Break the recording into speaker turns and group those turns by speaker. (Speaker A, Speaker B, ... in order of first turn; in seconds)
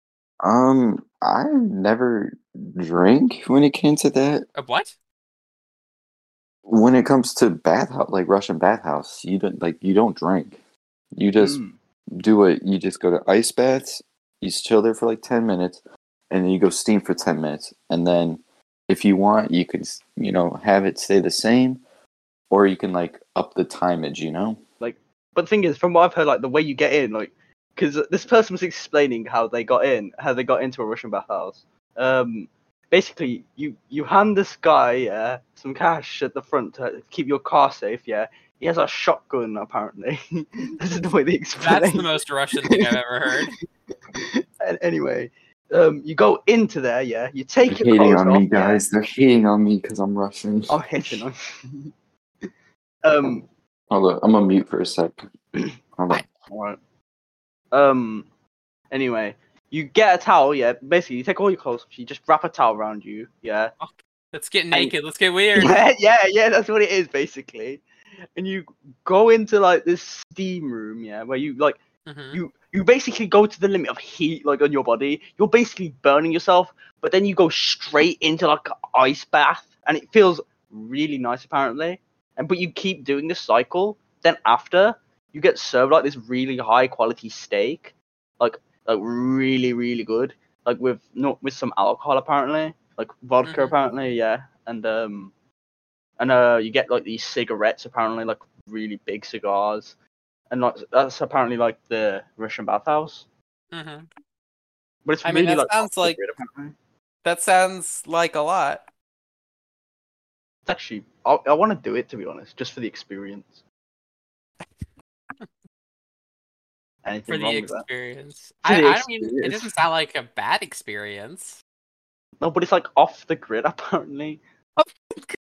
Speaker A: 0.4-4.5, 6.7-10.6, 11.2-11.6, 12.2-21.8, 22.5-24.6, 47.7-50.8, 53.9-55.2, 56.0-56.2
Speaker B: 4.6-4.9, 41.6-43.5, 63.8-65.8, 72.1-72.4, 93.4-93.8, 103.7-104.1, 105.2-106.2, 107.2-108.8, 117.3-121.6, 124.8-125.4
Speaker C: 11.4-11.8, 24.8-42.1, 42.6-42.9, 44.1-48.8, 50.7-51.9, 53.0-53.5, 56.5-56.8, 57.7-58.3, 58.9-63.7, 65.5-67.8, 68.4-71.8, 72.3-95.3, 96.2-99.9, 100.5-103.3, 105.1-106.7, 110.7-113.6, 117.0-117.8, 118.7-119.7, 122.4-124.4